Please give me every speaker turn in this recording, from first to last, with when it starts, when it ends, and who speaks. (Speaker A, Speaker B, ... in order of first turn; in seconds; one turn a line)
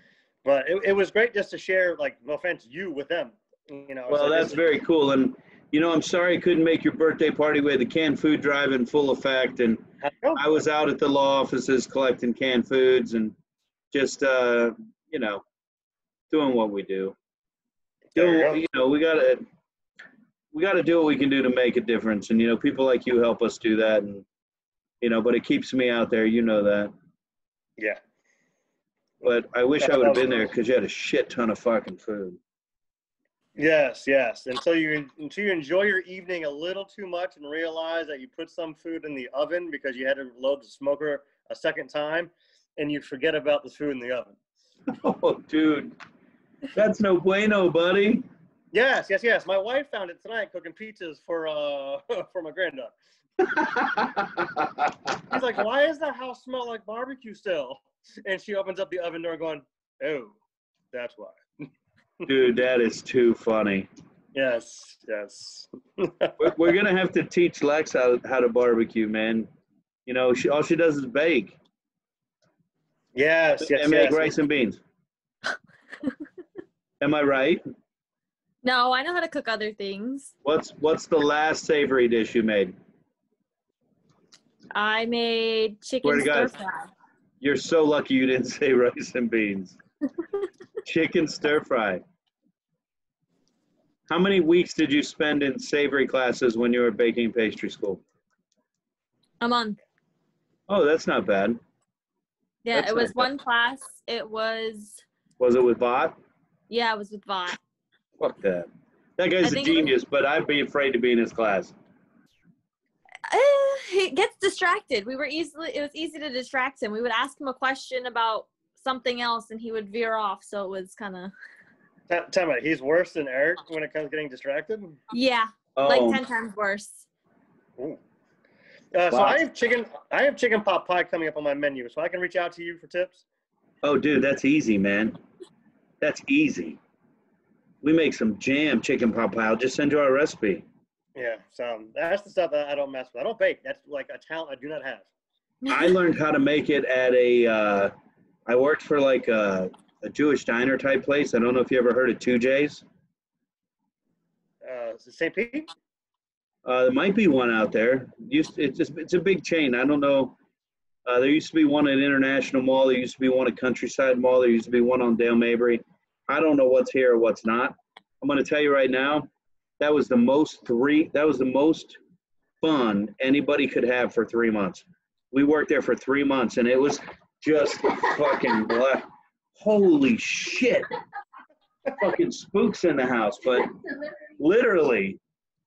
Speaker A: 0.4-4.6
Speaker B: 4.1-13.3
Speaker A: 10.0-10.4
Speaker B: 13.9-15.4
Speaker B: 16.3-17.1
Speaker A: 18.1-18.6
Speaker B: 18.1-19.4
Speaker B: 20.5-24.2
Speaker B: 25.0-26.9
Speaker B: 29.2-32.4
Speaker A: 29.8-30.4
Speaker A: 33.6-44.4
Speaker B: 44.9-46.0
Speaker B: 46.7-48.3
Speaker A: 48.7-52.9
Speaker B: 53.4-54.9
Speaker A: 55.3-60.4
Speaker A: 60.9-61.7
Speaker B: 62.2-63.9
Speaker A: 64.3-66.3
Speaker B: 66.4-69.5
Speaker B: 70.0-71.6
Speaker A: 73.1-74.3
Speaker B: 73.6-74.8
Speaker B: 77.0-77.6
Speaker C: 78.6-80.3
Speaker B: 80.4-82.7
Speaker C: 84.7-86.8
Speaker B: 86.0-86.5
Speaker B: 87.4-89.8
Speaker B: 90.8-92.0
Speaker B: 94.1-98.0
Speaker C: 99.4-99.8
Speaker B: 100.7-101.6
Speaker C: 102.6-105.0
Speaker B: 102.7-103.2
Speaker B: 105.4-106.2
Speaker C: 106.7-107.6
Speaker B: 108.2-111.7
Speaker C: 109.4-109.9
Speaker C: 113.3-121.3
Speaker A: 122.1-125.0
Speaker C: 125.1-127.0
Speaker B: 125.8-126.2
Speaker A: 128.9-133.2
Speaker B: 129.1-129.4
Speaker B: 133.8-135.2
Speaker B: 136.0-136.8
Speaker B: 137.8-140.6
Speaker A: 141.2-145.1
Speaker B: 145.7-147.9
Speaker B: 148.5-152.8
Speaker A: 154.6-155.7
Speaker B: 156.6-160.3
Speaker B: 161.0-169.3
Speaker B: 169.8-172.0
Speaker B: 172.6-180.9
Speaker B: 181.9-183.7
Speaker B: 184.4-185.2